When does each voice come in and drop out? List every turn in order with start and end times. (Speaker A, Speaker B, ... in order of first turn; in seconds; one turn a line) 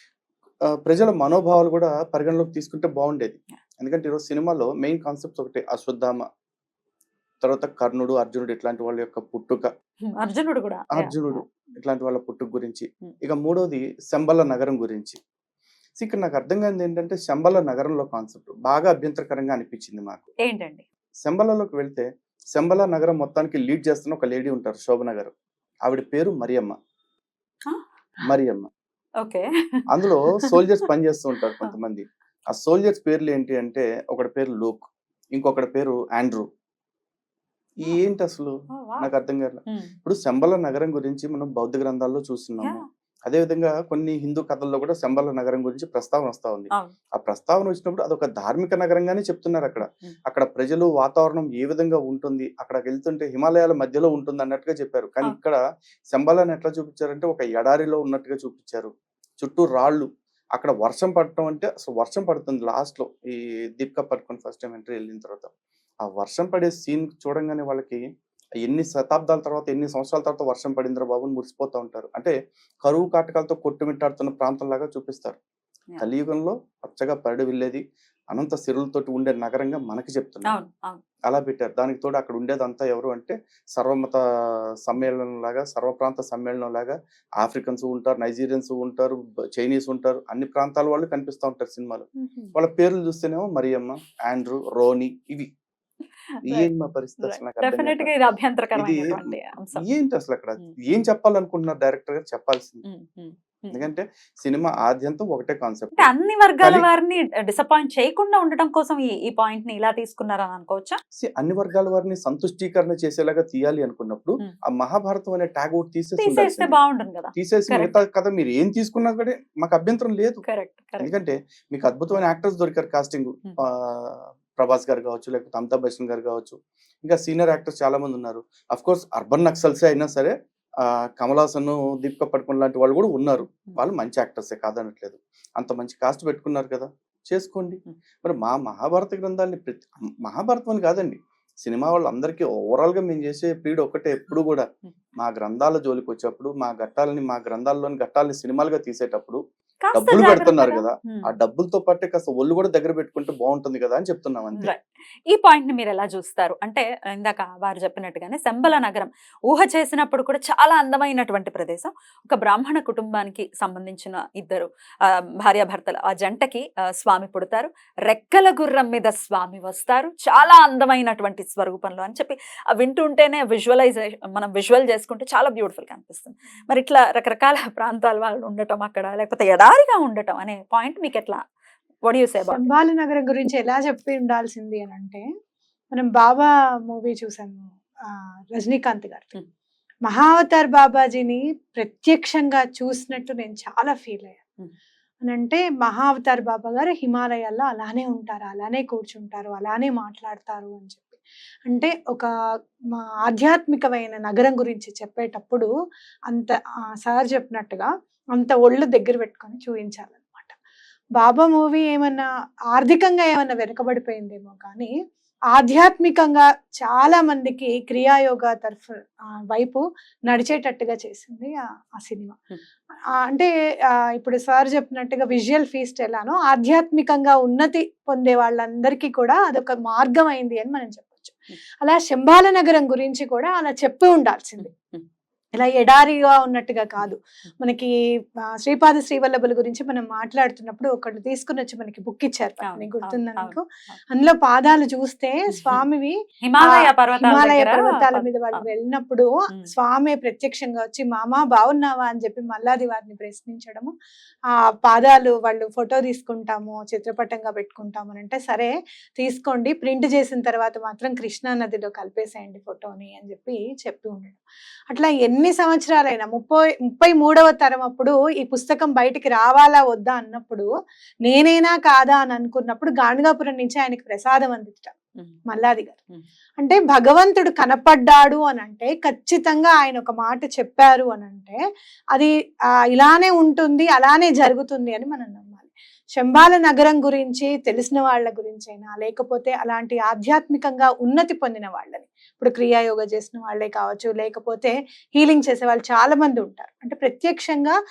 Speaker A: 0.7-6.2
Speaker A: 7.4-9.7
Speaker B: 10.1-11.4
Speaker A: 10.9-15.2
Speaker A: 16.0-20.2
Speaker B: 20.4-20.8
Speaker A: 21.2-25.3
Speaker A: 25.9-26.8
Speaker A: 28.2-28.7
Speaker B: 29.2-29.9
Speaker A: 29.9-36.5
Speaker A: 37.8-55.6
Speaker B: 38.7-39.1
Speaker B: 39.7-39.9
Speaker B: 49.8-50.1
Speaker A: 56.1-65.5
Speaker A: 66.0-68.0
Speaker A: 68.6-75.4
Speaker A: 76.0-77.8
Speaker A: 78.3-80.5
Speaker B: 80.5-81.0
Speaker A: 81.3-84.2
Speaker A: 84.8-95.5
Speaker B: 92.2-92.5
Speaker B: 96.3-96.7
Speaker A: 96.4-98.1
Speaker B: 97.2-99.8
Speaker A: 98.8-102.8
Speaker B: 102.8-103.8
Speaker A: 103.7-106.1
Speaker B: 106.0-111.0
Speaker A: 106.6-106.8
Speaker A: 111.2-116.7
Speaker B: 116.2-118.0
Speaker A: 117.3-120.4
Speaker B: 120.4-121.1
Speaker A: 121.0-149.4
Speaker B: 149.8-151.3
Speaker A: 149.9-154.7
Speaker B: 154.6-181.4
Speaker B: 182.0-182.7
Speaker C: 182.5-185.2
Speaker C: 185.9-189.3
Speaker C: 190.1-194.4
Speaker C: 195.2-202.3
Speaker C: 203.0-205.7
Speaker C: 206.3-210.6
Speaker C: 211.2-214.9
Speaker C: 215.5-222.4
Speaker C: 223.2-234.7
Speaker B: 234.6-235.0
Speaker C: 235.5-237.9
Speaker C: 238.5-253.9
Speaker B: 242.6-244.0
Speaker B: 245.5-245.8
Speaker B: 246.4-248.6
Speaker C: 254.8-264.4
Speaker C: 264.9-270.7
Speaker C: 271.2-274.9
Speaker C: 275.5-276.0
Speaker C: 276.6-281.6
Speaker C: 282.9-297.8